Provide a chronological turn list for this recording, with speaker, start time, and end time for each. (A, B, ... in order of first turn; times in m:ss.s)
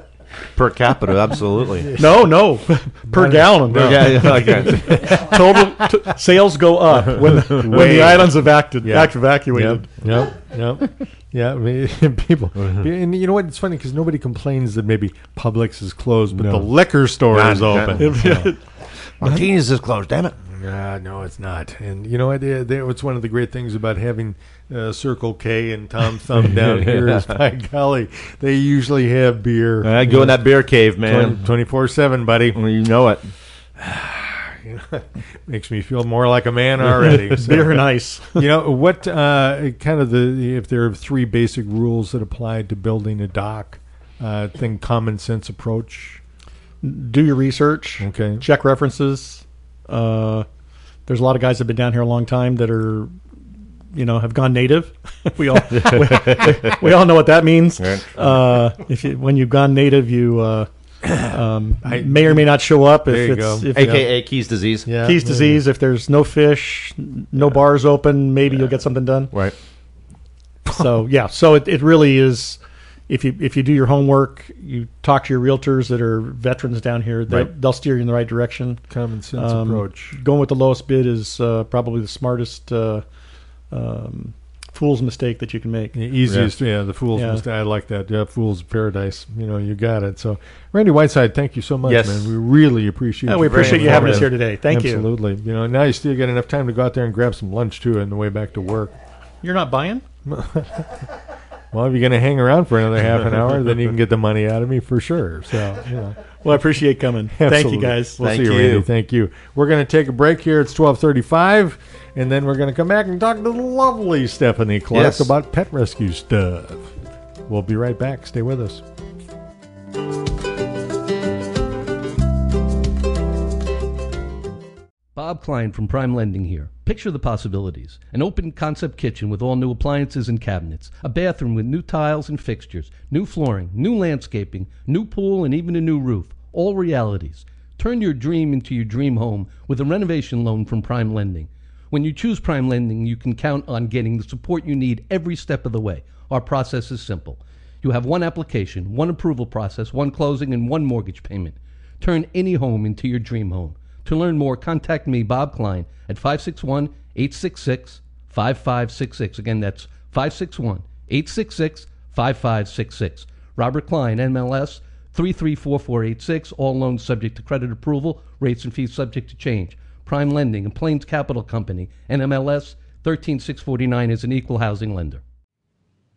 0:00.6-0:01.9 A
0:02.0-0:09.9 B
0:03.1-0:06.0 C
0:03.7-0:05.0 A
0:07.2-0:18.5 C
0:12.6-0:12.9 A
0:16.3-0:16.7 A
0:17.3-0:18.0 A
0:18.0-0:18.6 B
0:19.2-0:20.4 A
0:20.5-0:30.5 C
0:26.4-0:27.3 A
0:29.8-0:31.4 A
0:31.0-0:32.6 C
0:32.5-0:33.3 A
0:33.8-0:46.2 C
0:36.8-0:38.4 B
0:46.8-0:50.5 B
0:48.0-0:48.4 C
0:51.1-0:53.1 B
0:53.9-1:00.7 B
0:55.7-0:56.8 A
0:57.8-0:58.1 A
1:01.2-1:04.0 B
1:01.8-1:02.5 C
1:03.0-1:04.1 C
1:03.8-1:04.9 A
1:04.9-1:05.6 C
1:05.0-1:09.3 B
1:10.7-1:18.8 B
1:18.9-1:20.2 C
1:19.4-1:23.0 B
1:23.7-1:26.0 B
1:25.9-1:39.0 C
1:27.2-1:27.4 B
1:31.9-1:32.3 A
1:33.3-1:35.1 B
1:33.5-1:34.3 A
1:39.4-1:40.0 B
1:40.3-1:41.1 C
1:41.7-1:46.3 C
1:46.4-1:48.2 B
1:47.3-1:56.9 C
1:48.2-1:48.9 A
1:54.9-1:55.3 A
1:57.5-1:58.8 C
2:05.2-2:55.2 D